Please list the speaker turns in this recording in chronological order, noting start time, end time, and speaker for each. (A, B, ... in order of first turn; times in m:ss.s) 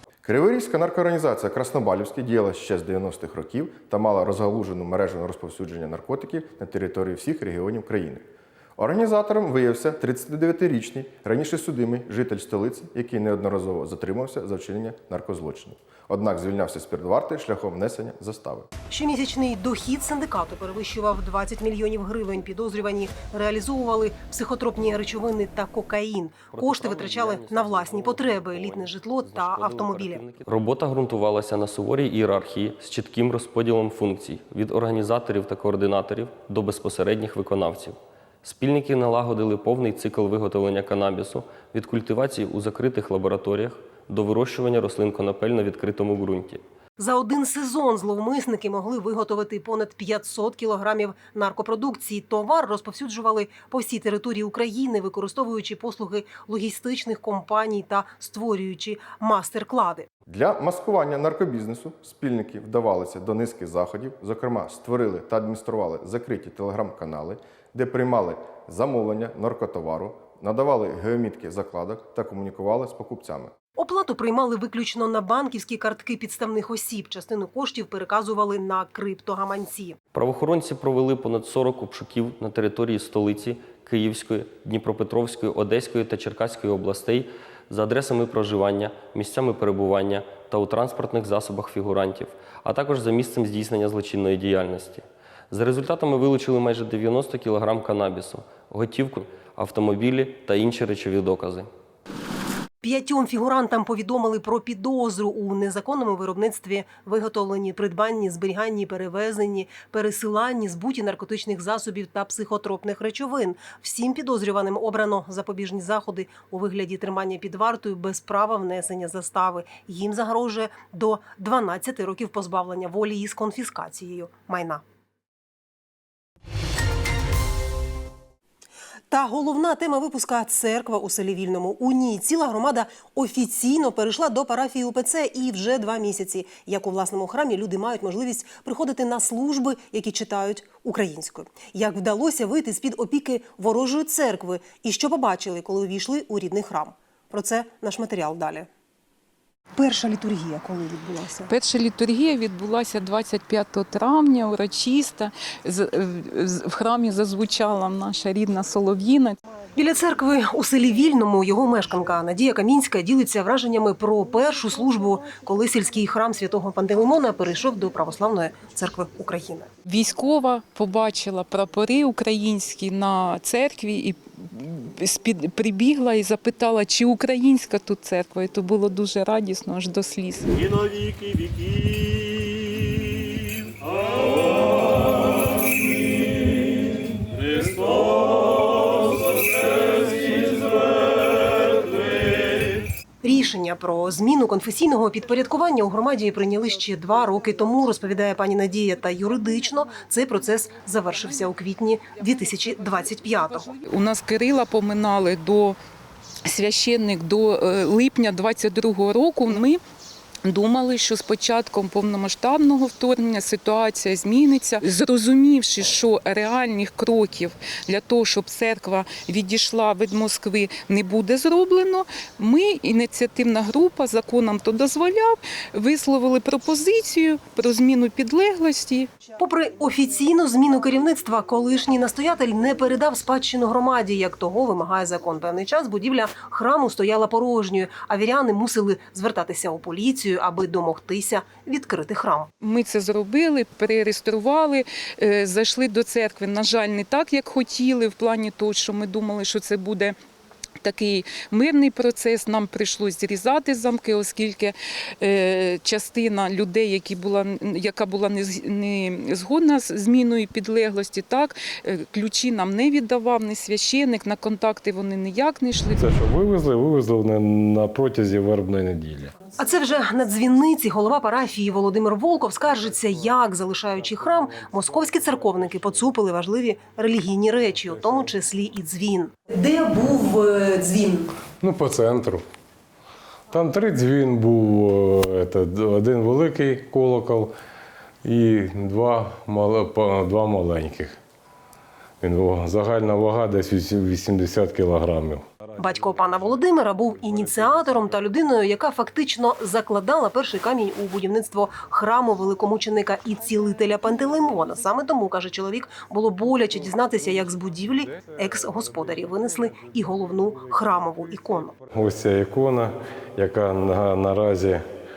0:00.2-0:18.7 A
0:18.9-0:30.2 B
0:26.5-0:46.6 C
0:47.0-1:00.1 B
1:00.3-1:13.5 A
1:13.8-1:20.0 B
1:20.1-1:41.7 C
1:42.8-2:04.8 B
2:09.1-2:28.7 B
2:29.8-2:31.5 B
2:31.5-2:39.4 D
2:39.7-2:49.7 B
2:49.8-3:00.5 D
3:13.2-3:23.7 B
3:23.8-3:25.8 D
3:26.5-3:29.8 D
3:30.4-3:49.1 D
3:49.4-4:02.5 B
4:02.6-4:10.2 D
4:10.8-4:26.2 D
4:26.0-4:29.3 E
4:29.6-4:41.3 B
4:41.6-4:42.4 E
4:43.5-4:47.5 E
4:48.2-4:51.2 E
4:52.2-4:55.7 E
4:55.8-5:11.7 B
5:11.9-5:14.8 E